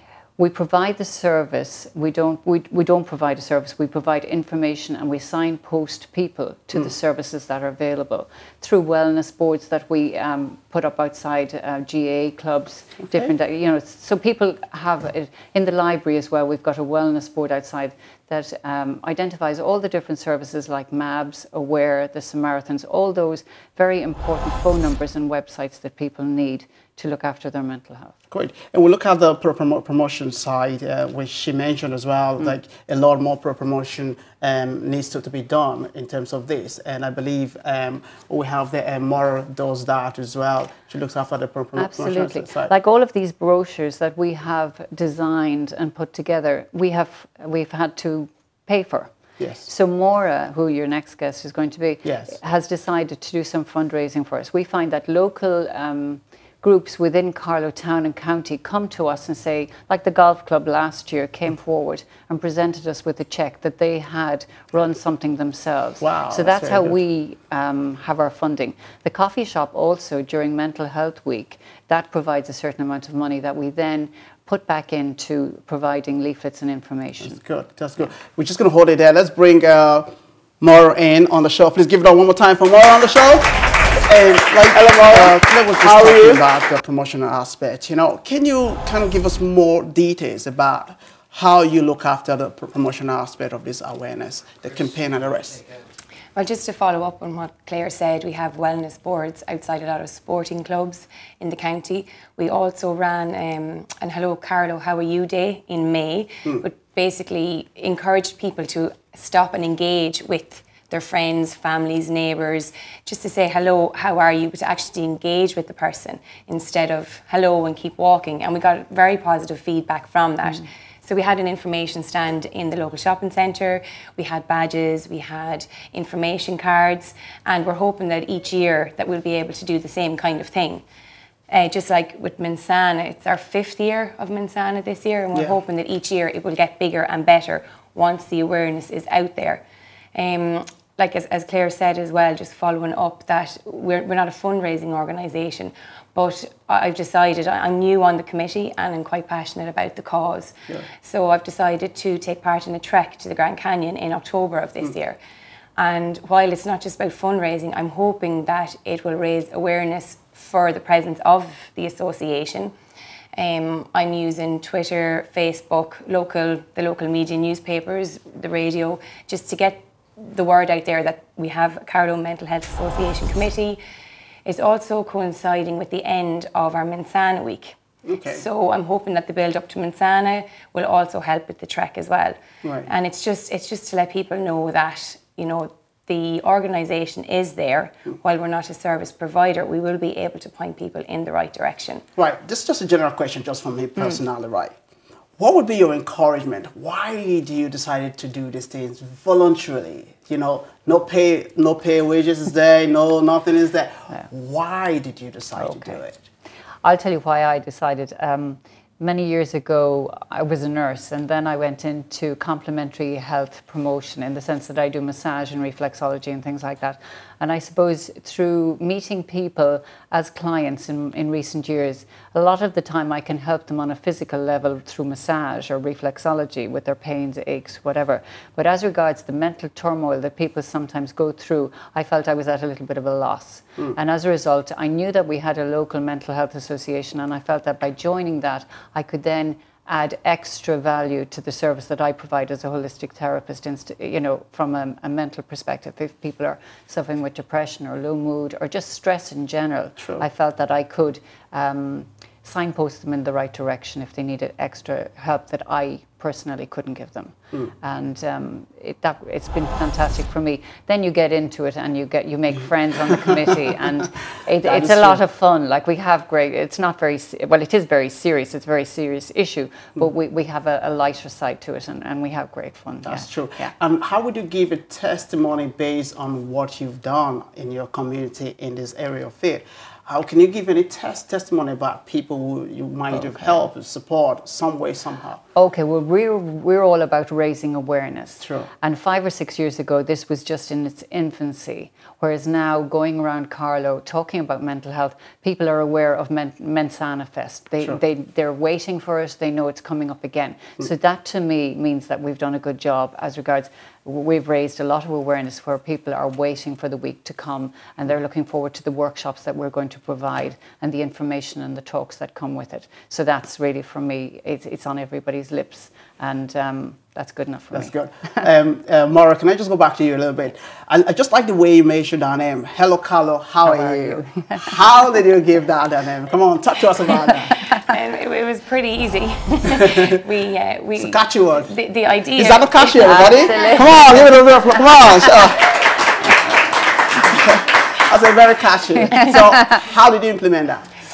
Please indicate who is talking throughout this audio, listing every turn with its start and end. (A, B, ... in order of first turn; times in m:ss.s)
0:00.4-0:28.1 A
0:28.3-0:42.7 B
0:41.7-0:49.1 A
0:49.4-0:49.7 B
0:49.6-1:17.4 A
0:52.0-0:52.4 B
1:06.0-1:07.0 B
1:17.2-1:23.5 B
1:24.0-1:35.6 B
1:36.3-2:10.8 C
2:11.5-2:19.6 C
2:20.1-2:35.2 C
2:35.8-2:42.7 C
2:43.3-2:53.8 C
2:54.4-3:12.0 C
2:58.0-2:58.4 B
3:02.6-3:02.9 B
3:12.2-3:14.8 B
3:15.4-3:26.2 B
3:25.6-3:26.0 A
3:26.8-4:33.7 A
4:10.0-4:10.2 B
4:24.6-4:25.2 B
4:33.0-4:45.4 B
4:43.2-4:43.5 A
4:45.5-5:17.9 A
4:48.4-4:48.7 B
5:17.7-5:27.5 B
5:23.6-5:24.7 A
5:27.7-5:34.2 C
5:29.8-5:30.1 B
5:31.0-5:31.7 B
5:32.3-5:35.7 B
5:33.0-5:34.3 A
5:37.2-5:40.9 B